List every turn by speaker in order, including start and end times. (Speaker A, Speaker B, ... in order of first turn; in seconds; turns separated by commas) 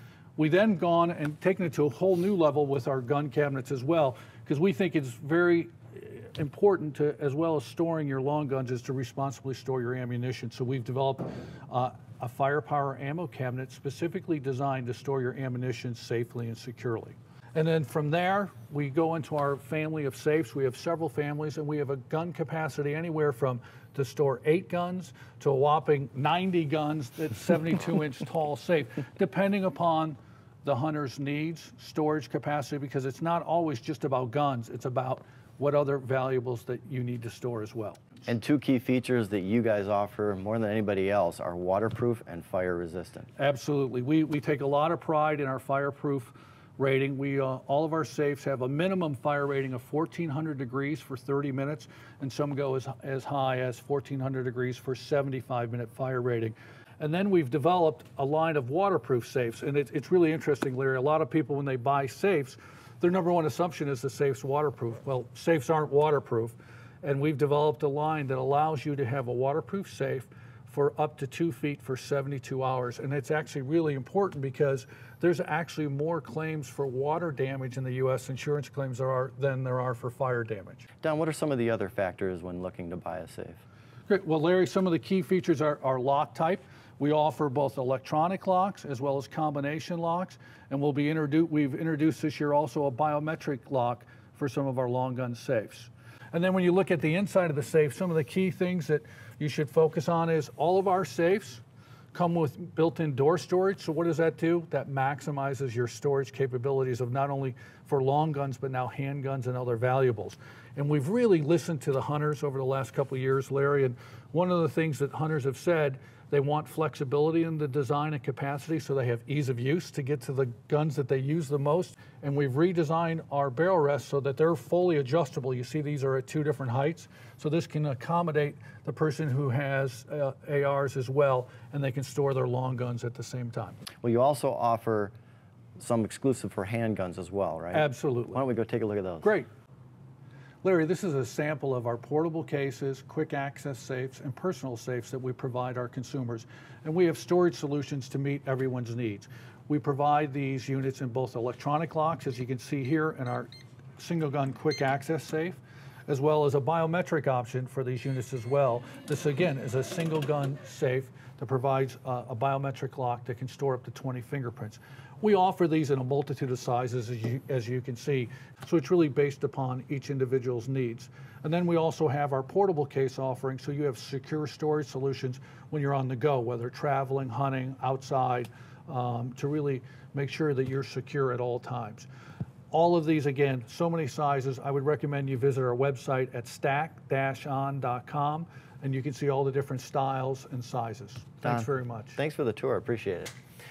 Speaker A: 0.4-38.1, Speaker B: 38.3-43.3, Speaker A: 43.4-80.9, Speaker B: 81.0-83.6, Speaker A: 84.1-101.6, Speaker A: 102.1-133.8, Speaker B: 134.0-135.1, Speaker B: 135.8-139.3, Speaker A: 137.7-138.4, Speaker A: 139.2-139.5, Speaker A: 140.6-182.1, Speaker A: 182.7-192.2, Speaker B: 191.4-193.3